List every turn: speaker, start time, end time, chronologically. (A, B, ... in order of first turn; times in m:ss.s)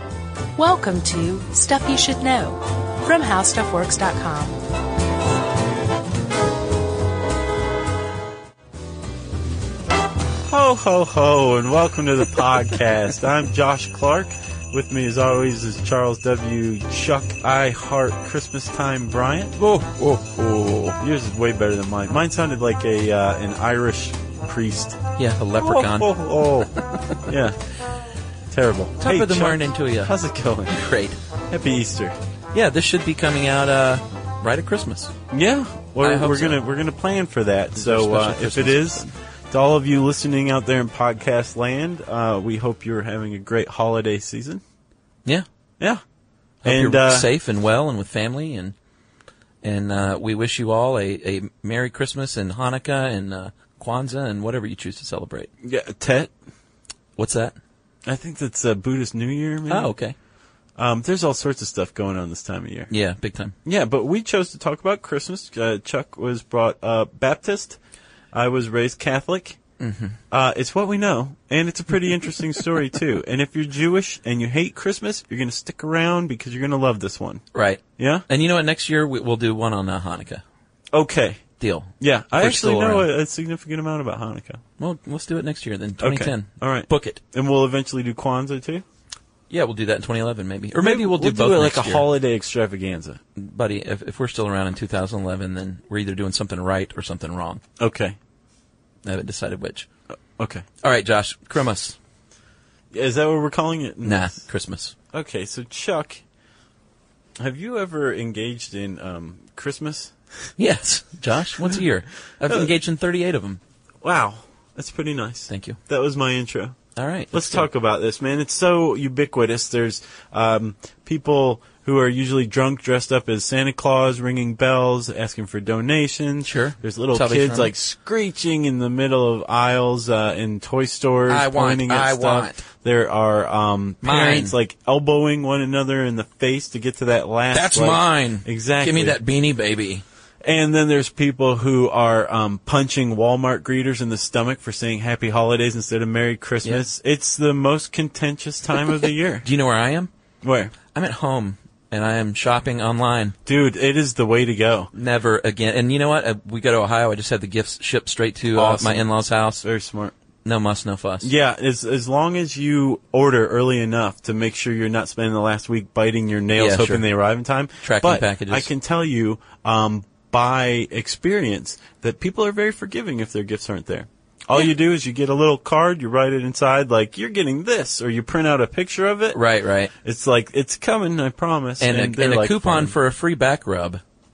0:00.6-0:04.6 A
0:10.5-0:19.6 B
0:19.6-0:21.0 C
0:21.0-0:25.1 B
0:25.2-0:26.1 C
0:25.6-0:26.7 B
0:26.7-0:27.2 C
0:27.2-0:27.6 B
0:28.5-0:30.9 B
0:29.0-0:30.1 C
0:30.7-0:31.2 C
0:31.5-0:32.2 B
0:32.5-0:35.1 C
0:35.3-0:44.6 B
0:36.0-0:36.6 C
0:37.8-0:39.1 C
0:46.6-0:48.7 C
0:46.6-0:47.3 B
0:49.6-0:55.5 C
0:55.6-0:56.3 B
0:57.2-0:57.6 C
0:58.0-0:59.9 B
0:59.7-1:00.1 C
1:00.8-1:02.9 B
1:02.9-1:03.5 C
1:03.6-1:07.8 B
1:08.3-1:09.6 B
1:09.8-1:10.2 C
1:10.3-1:17.4 B
1:17.5-1:20.4 C
1:18.0-1:18.2 B
1:20.9-1:21.5 B
1:21.6-1:23.1 C
1:22.0-1:24.6 B
1:24.8-1:27.2 C
1:26.0-1:28.8 B
1:29.5-1:32.0 C
1:30.7-1:33.2 B
1:33.4-1:37.6 C
1:37.8-1:38.2 B
1:39.0-1:39.9 C
1:40.4-1:40.6 B
1:40.8-1:42.0 C
1:42.9-1:44.3 B
1:44.0-1:44.9 C
1:45.1-1:46.2 B
1:47.4-1:50.5 B
1:50.6-1:53.6 C
1:52.4-1:52.7 B
1:54.0-1:56.8 B
1:55.5-1:55.8 C
1:57.0-1:57.7 C
1:57.3-2:19.2 B
2:06.4-2:07.7 C
2:11.3-2:12.6 C
2:14.0-2:14.5 C
2:17.5-2:20.0 C
2:20.4-2:29.5 B
2:29.4-2:30.1 C
2:30.4-2:30.7 B
2:30.9-2:33.4 C
2:33.4-2:34.9 B
2:34.9-2:39.6 C
2:38.5-2:40.1 B
2:40.4-2:41.3 C
2:41.2-2:59.4 B
2:46.6-2:47.0 C
2:47.8-2:48.7 C
2:59.3-2:59.9 C
2:59.9-3:02.9 B
3:01.8-3:04.0 C